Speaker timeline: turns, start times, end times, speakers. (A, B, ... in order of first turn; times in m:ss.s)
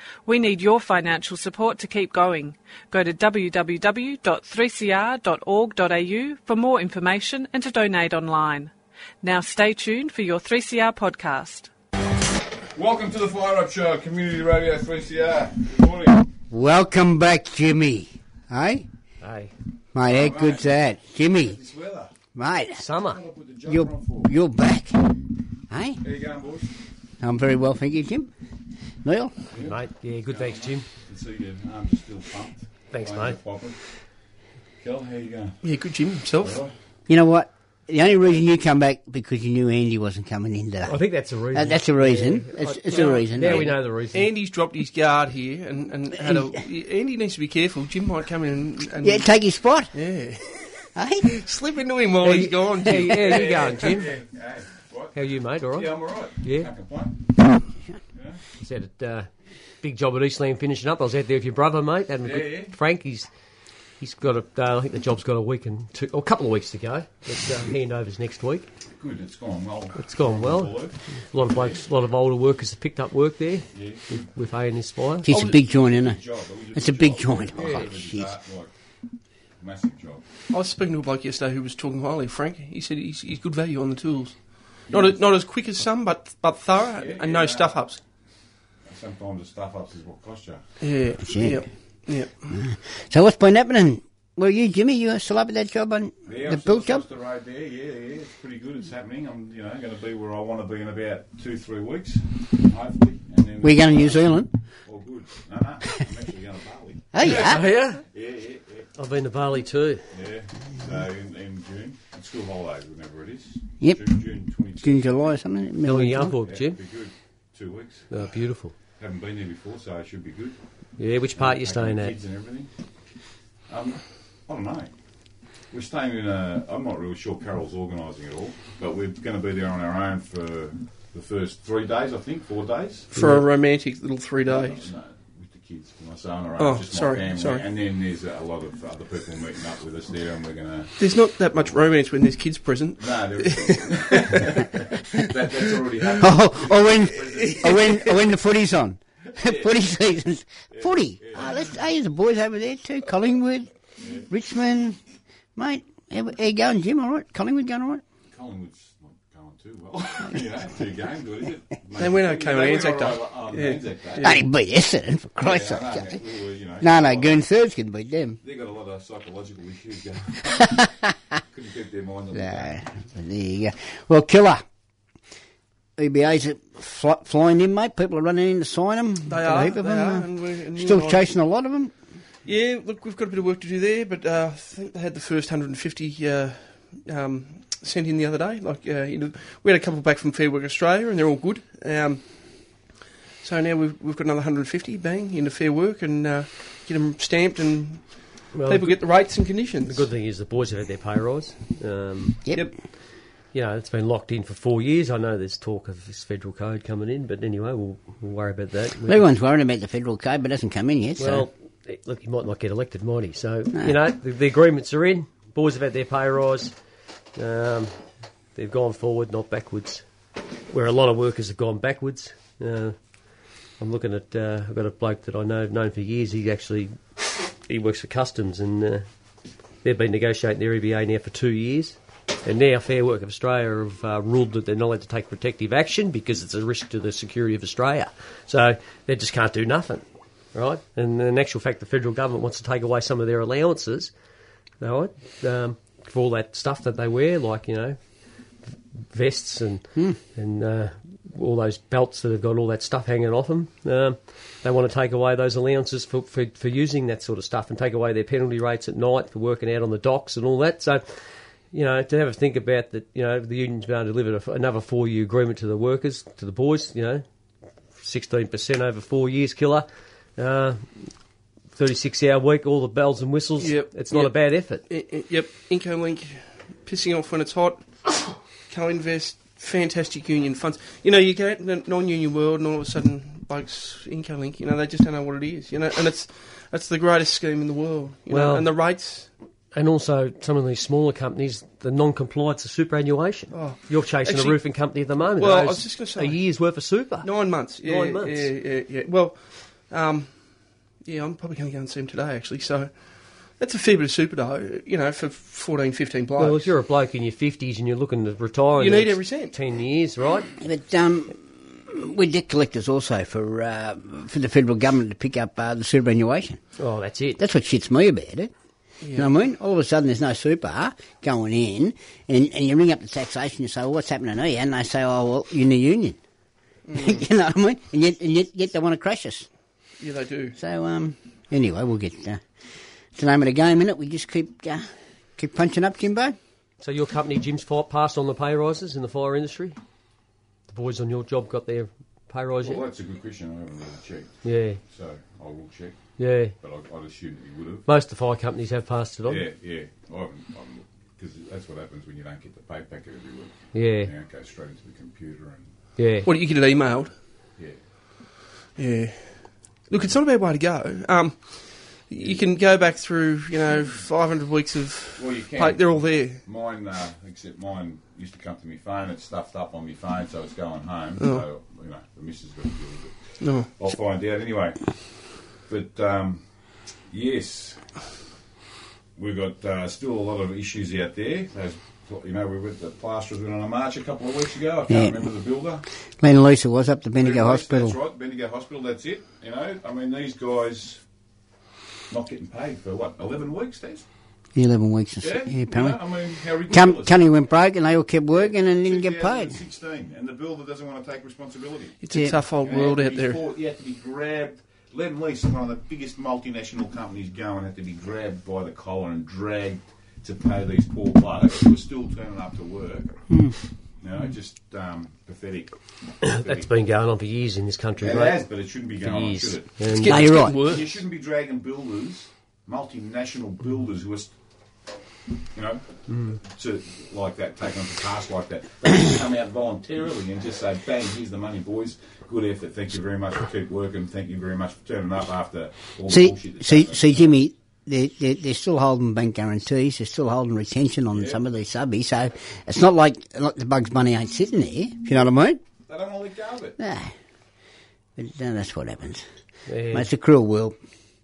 0:00.3-0:08.7 A
0:09.2-0:11.7 A
0:12.8-0:16.3 B
0:16.5-0:18.9 C
0:19.2-0:19.5 D
0:20.0-0:21.6 C
0:20.0-0:20.7 B
0:21.3-0:22.1 B
0:22.4-0:22.8 C
0:22.8-0:23.2 D
0:23.1-0:24.3 B
0:23.7-0:25.2 C
0:25.7-0:26.0 C
0:26.0-0:26.7 B
0:27.2-0:28.3 C
0:29.0-0:29.3 C
0:29.5-0:33.9 B
0:29.6-0:30.9 D
0:32.9-0:33.4 D
0:34.8-0:35.5 B
0:35.6-0:36.6 E
0:36.4-0:36.7 B
0:37.1-0:41.0 C
0:40.9-0:44.3 D
0:41.5-0:43.7 C
0:42.9-0:49.3 E
0:49.0-0:49.9 C
0:49.9-0:53.9 E
0:51.0-0:51.3 C
0:52.2-0:54.1 D
0:53.2-0:57.2 B
0:55.1-0:56.7 D
0:58.2-0:58.4 B
0:58.6-0:59.3 D
0:59.8-1:03.3 D
1:02.2-1:02.7 B
1:04.0-1:08.7 D
1:09.0-1:11.0 B
1:10.0-1:15.3 D
1:11.5-1:11.8 B
1:13.7-1:14.1 B
1:15.2-1:16.2 C
1:15.3-1:15.7 E
1:16.0-1:18.7 B
1:16.8-1:18.3 C
1:17.6-1:17.9 D
1:19.6-1:20.2 B
1:20.5-1:28.0 E
1:26.9-1:27.8 B
1:28.9-1:30.6 B
1:30.8-1:32.5 E
1:31.2-1:31.7 C
1:32.5-1:37.0 C
1:36.3-1:48.9 B
1:43.6-1:44.5 C
1:47.1-1:47.6 C
1:47.2-1:48.0 D
1:49.0-1:50.0 D
1:50.1-1:55.1 B
1:54.8-1:56.4 C
1:55.8-1:56.8 D
1:56.5-1:58.1 B
1:58.1-1:58.7 D
1:59.0-2:00.6 B
2:01.0-2:02.2 D
2:01.4-2:02.7 B
2:03.7-2:04.9 B
2:05.7-2:13.3 B
2:13.1-2:14.9 E
2:13.2-2:13.4 D
2:14.5-2:21.3 B
2:16.6-2:17.7 E
2:21.0-2:24.8 E
2:23.0-2:28.2 B
2:26.2-2:33.7 C
2:27.5-2:28.0 E
2:29.3-2:29.8 B
2:30.7-2:31.8 B
2:34.0-2:34.2 B
2:34.3-2:35.0 C
2:35.6-2:38.0 C
2:38.3-2:44.4 B
2:42.0-2:44.4 E
2:44.2-2:46.2 C
2:45.4-2:47.4 B
2:46.8-2:48.4 C
2:48.4-2:50.9 B
2:50.8-2:51.1 C
2:51.5-2:52.7 B
2:52.3-2:54.6 C
2:56.0-3:01.9 C
2:59.3-3:01.3 E
3:02.4-3:20.1 E
3:18.5-3:22.4 D
3:23.5-3:29.2 D
3:29.0-3:31.5 C
3:31.2-3:36.7 D
3:37.4-3:38.0 D
3:38.6-3:40.0 D
3:40.7-3:43.0 D
3:43.8-3:46.9 D
3:47.6-3:49.1 D
3:49.8-4:04.1 D
4:04.8-4:08.0 D
4:09.0-4:21.2 D
4:21.7-4:27.2 D
4:28.0-4:31.1 D
4:31.7-4:34.8 D
4:33.6-4:49.3 E
4:48.3-4:48.7 D
4:49.7-4:58.5 D
4:53.5-4:54.6 E
4:55.4-4:56.6 E
4:57.2-5:06.8 E
5:06.4-5:10.5 D
5:08.8-5:09.6 E
5:10.6-5:16.6 C
5:16.8-5:17.4 D
5:17.4-5:18.5 C
5:19.0-5:19.3 E
5:19.1-5:26.2 C
5:26.9-5:27.2 E
5:27.0-5:29.5 C
5:30.0-5:30.6 E
5:30.6-5:32.4 C
5:33.2-5:34.8 C
5:35.4-5:36.4 C
5:36.8-5:39.8 D
5:40.7-5:42.8 D
5:42.6-5:46.0 B
5:44.4-5:44.8 D
5:46.2-5:46.6 D
5:46.6-5:47.9 B
5:47.9-5:49.4 D
5:49.3-5:55.7 B
5:53.7-5:54.1 D
5:56.0-5:56.3 D
5:56.2-5:57.1 E
5:58.8-6:06.4 E
6:05.2-6:16.4 B
6:11.2-6:11.4 E
6:13.4-6:13.7 E
6:17.1-6:17.8 B
6:19.2-6:25.8 B
6:24.9-6:25.2 C
6:26.2-6:28.0 C
6:27.2-6:31.0 B
6:32.1-6:34.1 B
6:34.6-6:36.0 C
6:35.2-6:37.2 B
6:36.7-6:39.6 C
6:38.4-6:53.4 B
6:42.0-6:43.4 E
6:53.3-6:53.6 C
6:54.0-6:56.7 B
6:56.2-7:00.1 D
6:58.0-7:04.3 B
6:59.9-7:01.0 E
7:00.1-7:00.6 C
7:05.5-7:17.3 B
7:16.1-7:25.6 C
7:21.1-7:21.4 B
7:25.9-7:26.8 B
7:26.8-7:27.1 C
7:28.2-7:29.2 C
7:29.7-7:30.1 D
7:29.9-7:30.8 C